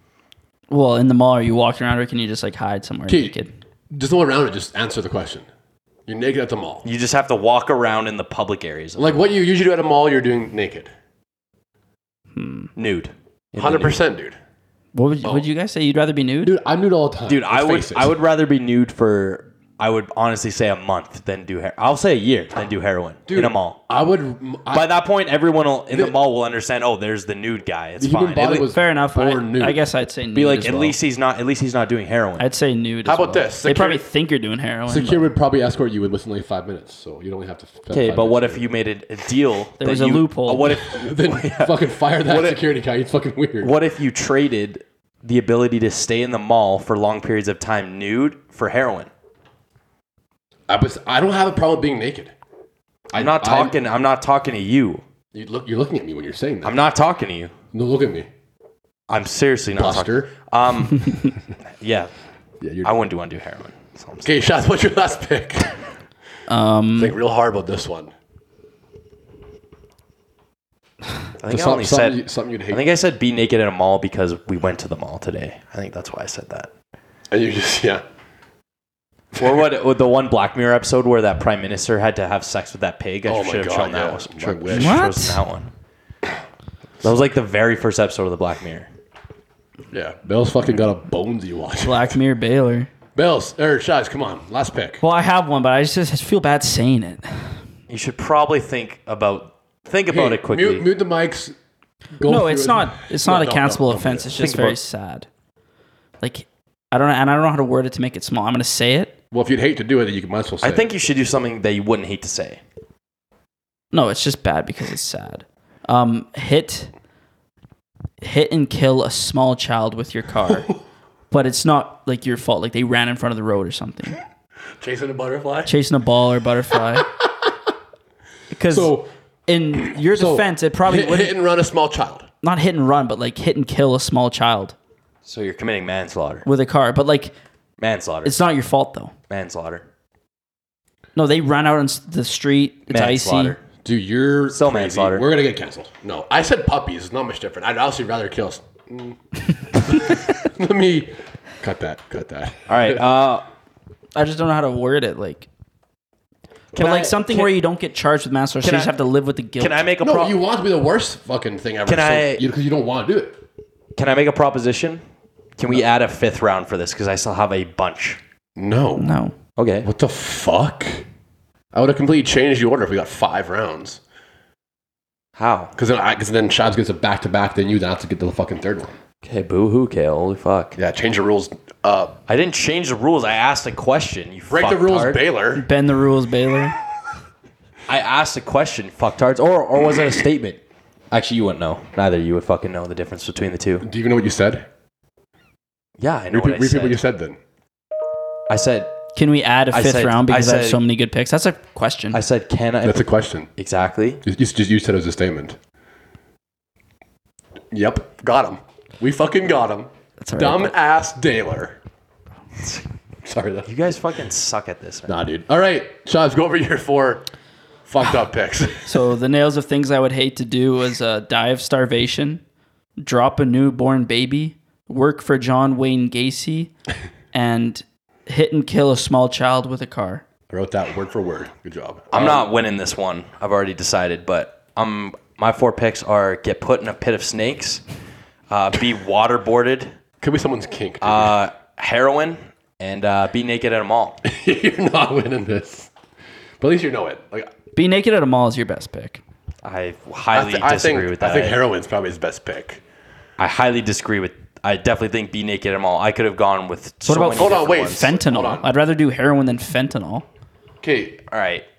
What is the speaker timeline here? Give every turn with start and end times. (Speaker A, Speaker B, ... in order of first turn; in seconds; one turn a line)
Speaker A: 0.7-3.5
Speaker B: 3.1-3.3
Speaker B: 3.9-5.5
Speaker B: 6.1-6.8
Speaker C: 6.8-9.2
Speaker B: 9.0-10.9
Speaker A: 12.4-12.7
Speaker C: 12.8-14.0
Speaker B: 13.6-14.4
Speaker A: 14.9-16.6
Speaker B: 16.4-18.1
Speaker C: 17.3-23.8
Speaker B: 23.3-24.9
Speaker C: 24.7-28.7
Speaker B: 25.9-26.2
Speaker B: 28.0-29.8
Speaker A: 28.6-30.9
Speaker C: 30.3-32.5
Speaker A: 32.4-35.3
Speaker B: 33.0-34.0
Speaker B: 34.9-38.6
Speaker C: 37.9-42.6
Speaker A: 39.8-40.7
Speaker B: 40.7-43.7
Speaker C: 43.6-49.1
Speaker B: 50.7-52.3
Speaker B: 53.1-53.8
Speaker C: 53.1-55.0
Speaker B: 55.3-56.8
Speaker C: 56.6-57.5
Speaker B: 57.7-58.3
Speaker C: 59.1-62.1
Speaker B: 59.7-60.3
Speaker B: 62.6-63.0
Speaker C: 62.8-64.3
Speaker B: 64.2-65.8
Speaker A: 66.5-67.2
Speaker B: 67.0-68.1
Speaker C: 71.4-76.7
Speaker B: 71.5-72.8
Speaker B: 77.3-78.0
Speaker C: 79.3-85.7
Speaker B: 83.3-85.0
Speaker A: 84.7-85.4
Speaker C: 87.0-88.9
Speaker B: 89.9-92.1
Speaker A: 91.8-92.9
Speaker B: 93.1-95.0
Speaker A: 95.0-97.6
Speaker C: 97.9-100.9
Speaker B: 100.1-101.5
Speaker B: 102.1-104.6
Speaker A: 102.2-105.3
Speaker C: 104.4-104.8
Speaker A: 106.2-109.1
Speaker B: 109.3-110.9
Speaker C: 110.6-112.6
Speaker A: 113.9-116.9
Speaker A: 118.2-120.7
Speaker A: 121.3-124.2
Speaker B: 124.8-125.7
Speaker A: 125.7-127.1
Speaker A: 128.5-128.9
Speaker B: 128.7-129.1
Speaker A: 129.5-131.3
Speaker B: 129.8-132.3
Speaker A: 132.4-134.8
Speaker C: 135.2-136.4
Speaker A: 136.4-137.3
Speaker C: 137.8-138.4
Speaker A: 138.2-139.1
Speaker C: 139.3-139.9
Speaker A: 141.2-143.6
Speaker C: 142.9-143.6
Speaker B: 143.8-149.2
Speaker C: 144.5-145.3
Speaker B: 149.8-153.0
Speaker C: 152.7-153.4
Speaker A: 154.1-155.5
Speaker C: 156.7-157.5
Speaker A: 156.8-159.8
Speaker C: 158.6-158.9
Speaker C: 159.6-160.4
Speaker B: 160.0-163.4
Speaker C: 161.9-162.4
Speaker C: 163.9-165.0
Speaker C: 165.6-168.2
Speaker B: 168.6-169.1
Speaker A: 169.0-169.3
Speaker C: 169.6-169.9
Speaker B: 169.8-171.1
Speaker B: 171.7-174.0
Speaker C: 175.4-175.7
Speaker B: 175.8-178.9
Speaker C: 179.2-180.8
Speaker B: 180.8-182.2
Speaker C: 182.3-185.2
Speaker B: 184.5-185.7
Speaker A: 185.6-186.8
Speaker C: 187.9-193.9
Speaker B: 193.8-194.7
Speaker C: 196.0-197.0
Speaker B: 196.3-197.4
Speaker C: 198.5-198.9
Speaker A: 199.1-202.2
Speaker C: 199.7-200.8
Speaker C: 202.1-204.2
Speaker B: 202.8-203.5
Speaker B: 204.2-205.6
Speaker B: 207.7-211.8
Speaker A: 210.2-210.7
Speaker B: 213.2-213.7
Speaker C: 213.6-215.2
Speaker B: 215.1-217.3
Speaker B: 217.9-218.9
Speaker A: 218.9-222.4
Speaker A: 223.0-226.7
Speaker A: 227.3-230.2
Speaker B: 230.5-232.5
Speaker C: 232.1-237.8
Speaker C: 238.5-239.9
Speaker B: 240.2-241.3
Speaker C: 241.0-244.2
Speaker B: 244.2-245.9
Speaker B: 246.6-247.5
Speaker A: 247.7-249.2
Speaker C: 249.6-251.6
Speaker B: 250.3-252.8
Speaker C: 253.4-258.1
Speaker A: 257.1-260.3
Speaker B: 257.1-258.7
Speaker B: 260.8-261.2
Speaker C: 261.3-261.6